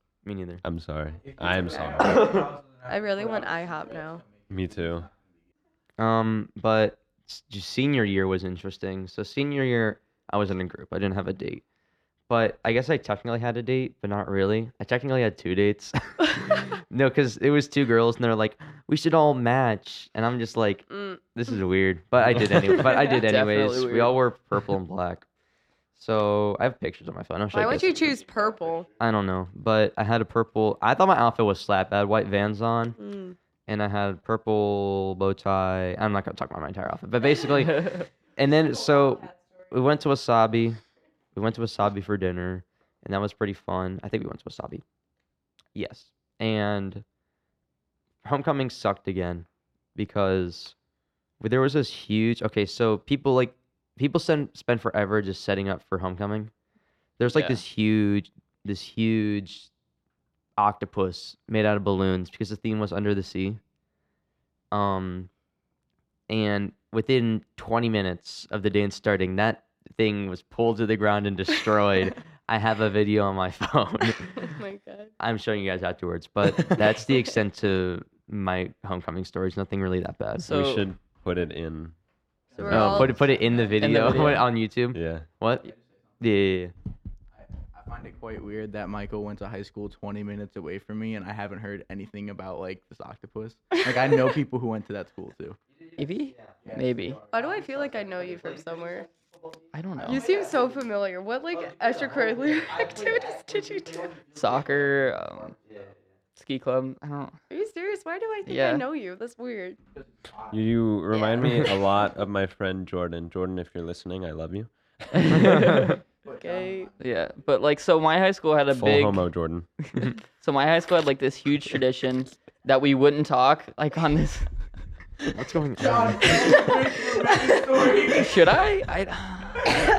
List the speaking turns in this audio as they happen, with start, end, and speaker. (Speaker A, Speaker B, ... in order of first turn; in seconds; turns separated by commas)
Speaker A: 0.2-0.6, Speaker B: 0.6-2.4, Speaker C: 1.2-5.2, Speaker D: 1.7-4.2, Speaker B: 4.5-5.1, Speaker A: 6.0-11.6, Speaker A: 12.3-25.3, Speaker D: 20.9-21.2, Speaker E: 22.8-24.2, Speaker A: 26.0-28.1, Speaker D: 27.5-28.9, Speaker A: 29.0-33.0, Speaker D: 33.0-33.4, Speaker A: 33.7-40.8, Speaker D: 39.0-39.7, Speaker A: 41.4-44.8, Speaker A: 45.8-47.0, Speaker A: 48.2-50.8, Speaker A: 51.4-56.5, Speaker A: 57.2-59.7, Speaker E: 57.4-57.6, Speaker A: 60.6-63.6, Speaker A: 64.7-65.3, Speaker A: 66.3-74.5, Speaker D: 74.4-75.1, Speaker A: 75.2-80.5, Speaker E: 80.4-80.8, Speaker B: 80.5-82.0, Speaker C: 82.5-83.8, Speaker D: 82.6-83.4, Speaker A: 82.7-85.7, Speaker E: 83.8-84.5, Speaker B: 84.9-85.3, Speaker A: 86.2-86.7, Speaker C: 87.4-95.6, Speaker E: 96.0-97.2, Speaker C: 96.7-98.2, Speaker D: 97.3-99.1, Speaker E: 99.7-100.3, Speaker D: 100.0-104.2, Speaker E: 104.3-105.5, Speaker E: 106.4-107.3, Speaker D: 107.5-109.8, Speaker E: 108.5-108.8, Speaker C: 110.0-110.6, Speaker B: 110.5-115.5, Speaker E: 115.1-116.0, Speaker C: 116.2-117.2, Speaker D: 116.3-116.9, Speaker E: 117.0-119.3, Speaker B: 118.8-119.7, Speaker E: 119.9-124.5, Speaker A: 125.3-126.3, Speaker C: 125.8-128.4, Speaker D: 126.2-127.6, Speaker E: 128.1-129.8